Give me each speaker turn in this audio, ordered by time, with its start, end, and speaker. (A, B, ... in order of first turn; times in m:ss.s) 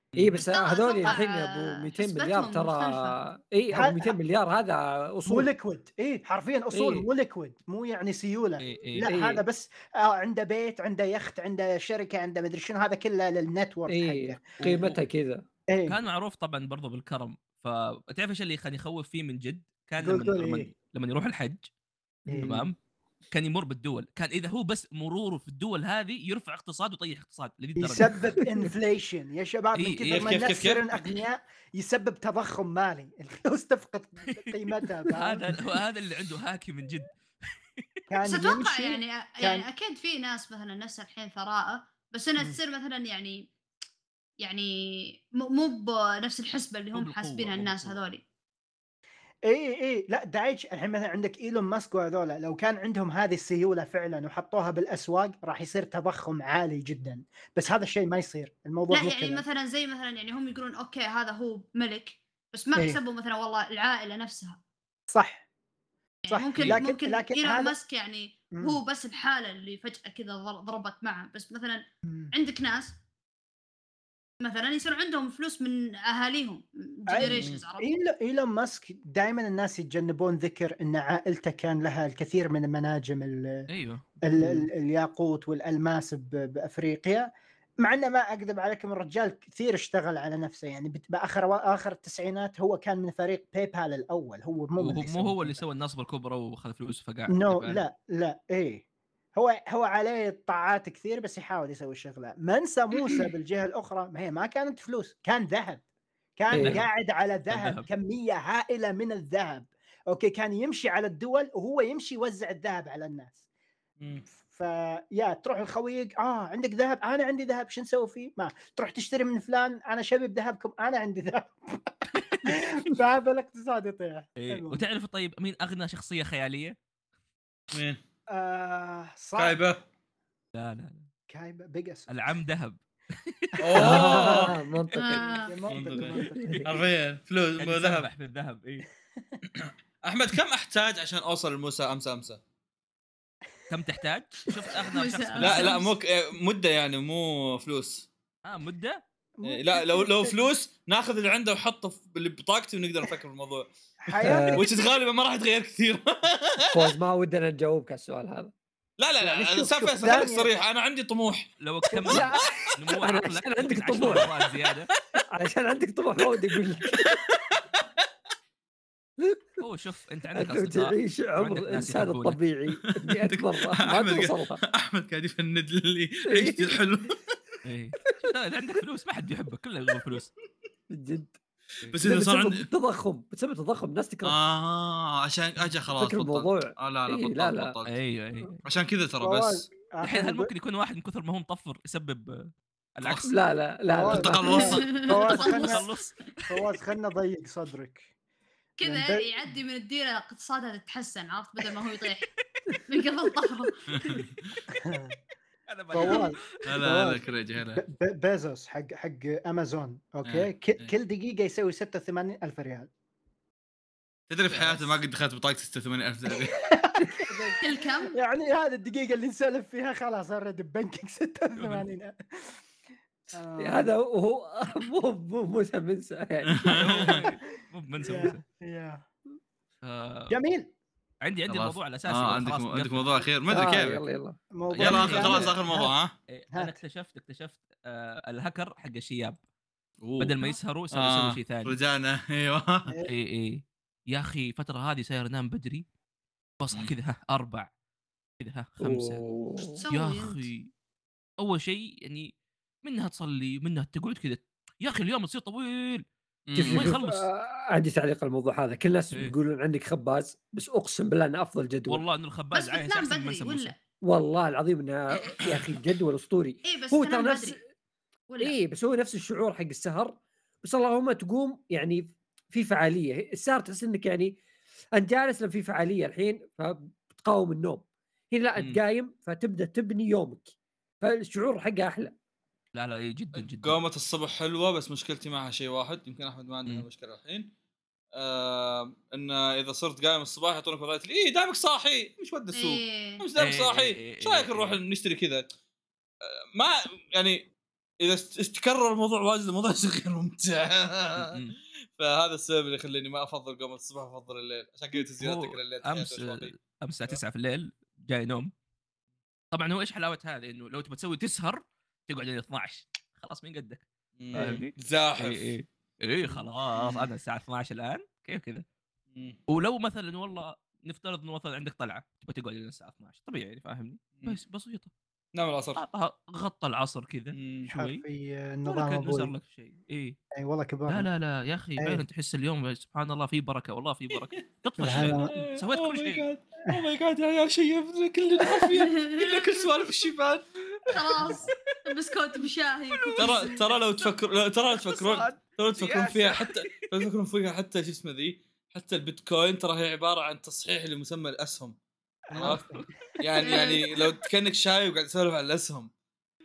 0:00.1-0:00.4 A
0:00.2-0:05.5 B
0:00.4-0:03.2 C
0:03.8-0:04.1 D
0:05.3-0:14.4 D
0:06.7-0:07.1 B
0:08.6-0:09.1 A
0:09.0-0:09.4 B
0:13.9-0:15.4 B
0:14.6-0:15.0 A
0:15.7-0:16.0 D
0:15.9-0:21.7 A
0:20.0-0:20.7 D
0:22.3-0:22.6 B
0:22.3-0:22.7 D
0:22.4-0:22.8 A
0:23.3-0:28.4 A
0:27.8-0:35.6 D
0:29.8-0:30.4 A
0:30.1-0:30.8 E
0:35.1-0:37.1 A
0:38.1-0:39.6 D
0:38.2-0:43.5 C
0:44.4-0:48.2 C
0:46.9-0:48.0 A
0:49.5-0:59.4 D
0:58.9-1:04.6 C
1:05.1-1:05.4 D
1:06.3-1:12.9 C
1:06.3-1:07.7 D
1:14.4-1:17.9 C
1:17.2-1:23.7 D
1:17.2-1:17.6 E
1:23.7-1:24.0 A
1:24.2-1:27.3 D
1:24.4-1:24.7 B
1:27.8-1:35.6 D
1:34.8-1:37.8 A
1:37.3-1:38.8 D
1:39.4-1:45.8 D
1:46.4-1:53.4 D
1:46.5-1:46.9 A
1:46.5-1:46.8 B
1:47.5-1:47.9 A
1:54.0-1:54.2 E
1:54.4-2:04.8 D
2:02.2-2:02.5 A
2:04.4-2:06.8 A
2:07.7-2:08.0 E
2:08.3-2:09.6 D
2:09.4-2:09.8 E
2:10.6-2:11.1 A
2:11.3-2:12.1 D
2:12.1-2:14.2 A
2:13.6-2:14.5 E
2:13.7-2:14.5 D
2:13.8-2:15.3 B
2:15.0-2:15.6 C
2:15.1-2:16.7 D
2:15.7-2:16.1 E
2:16.4-2:16.7 B
2:16.6-2:18.1 E
2:17.6-2:18.9 A
2:19.5-2:22.4 E
2:23.7-2:25.8 A
2:24.7-2:25.9 C
2:25.4-2:28.1 E
2:28.4-2:29.0 A
2:29.4-2:30.4 D
2:29.4-2:33.7 E
2:34.0-2:34.7 D
2:34.2-2:34.7 B
2:34.5-2:36.6 E
2:36.7-2:38.5 B
2:39.0-2:41.5 E
2:39.2-2:40.5 D
2:41.6-2:44.9 A
2:41.9-2:42.4 D
2:42.0-2:44.3 B
2:45.3-2:47.2 B
2:46.9-2:47.8 E
2:49.6-2:52.4 A
2:50.3-2:54.6 B
2:53.0-2:57.2 E
2:56.3-2:56.8 B
2:57.6-3:00.3 A
3:00.9-3:01.4 B
3:01.9-3:02.7 E
3:02.0-3:04.4 B
3:04.2-3:08.0 E
3:05.9-3:07.7 B
3:07.9-3:08.6 A
3:08.6-3:09.7 E
3:09.2-3:10.5 D
3:10.0-3:13.3 A
3:13.0-3:13.3 E
3:13.3-3:14.8 B
3:13.9-3:15.9 D
3:14.1-3:15.2 E
3:14.6-3:15.9 C
3:15.1-3:16.3 A
3:16.5-3:18.1 D
3:18.8-3:19.6 D
3:18.8-3:22.3 C
3:22.9-3:24.2 C
3:23.9-3:24.6 E
3:24.7-3:25.2 D
3:25.7-3:26.7 A
3:25.9-3:32.9 D
3:26.6-3:27.8 E
3:30.2-3:30.9 E
3:34.3-3:36.5 E
3:36.6-3:42.6 D
3:37.6-3:38.1 C
3:41.6-3:41.9 A
3:43.3-3:43.9 D
3:43.6-3:47.1 B
3:46.5-3:47.2 E
3:46.7-3:48.4 A
3:48.0-3:49.0 D
3:49.8-3:50.4 A
3:50.3-3:50.7 D
3:51.2-3:53.3 A
3:51.5-3:54.0 E
3:53.5-3:54.4 B
3:54.5-3:55.9 D
3:54.7-3:55.6 A
3:54.8-3:56.2 E
3:56.3-3:59.4 A
4:00.0-4:00.4 E
4:00.2-4:01.8 A
4:00.9-4:03.0 E
4:02.9-4:03.1 D
4:03.1-4:05.8 A
4:06.6-4:07.7 A
4:08.4-4:09.3 A
4:08.8-4:09.8 B
4:09.8-4:10.5 C
4:09.9-4:10.7 A
4:11.4-4:12.3 A
4:12.8-4:16.0 A
4:16.5-4:16.9 E
4:16.6-4:22.0 B
4:16.6-4:17.2 A
4:21.9-4:23.7 A
4:22.5-4:23.8 C
4:24.1-4:27.6 B
4:26.6-4:27.6 C
4:28.3-4:28.6 C
4:28.4-4:34.4 B
4:35.0-4:42.2 B
4:42.8-4:43.8 A
4:43.4-4:47.5 E
4:48.2-4:55.5 E
4:52.5-4:53.2 C
4:53.4-4:54.8 A
4:56.3-4:57.5 E
4:58.0-5:01.4 E
5:01.2-5:01.5 A
5:02.0-5:06.6 E
5:05.2-5:08.5 A
5:09.5-5:18.6 A
5:14.2-5:15.5 E
5:14.4-5:14.6 B
5:16.7-5:17.1 E
5:19.5-5:24.9 A
5:25.3-5:25.8 E
5:25.8-5:28.0 A
5:27.3-5:27.7 E
5:27.7-5:29.3 D
5:28.6-5:30.2 A
5:30.4-5:31.1 D
5:30.9-5:36.2 A
5:31.8-5:32.0 D
5:34.8-5:35.4 D
5:35.3-5:40.4 E
5:38.7-5:39.5 C
5:40.9-5:43.6 C
5:41.0-5:41.8 A
5:43.0-5:43.3 A
5:43.2-5:51.8 E
5:44.9-5:46.9 A
5:52.3-5:52.9 D
5:52.3-5:52.6 E
5:52.4-5:52.9 A
5:53.2-5:55.9 E
5:53.4-5:54.0 C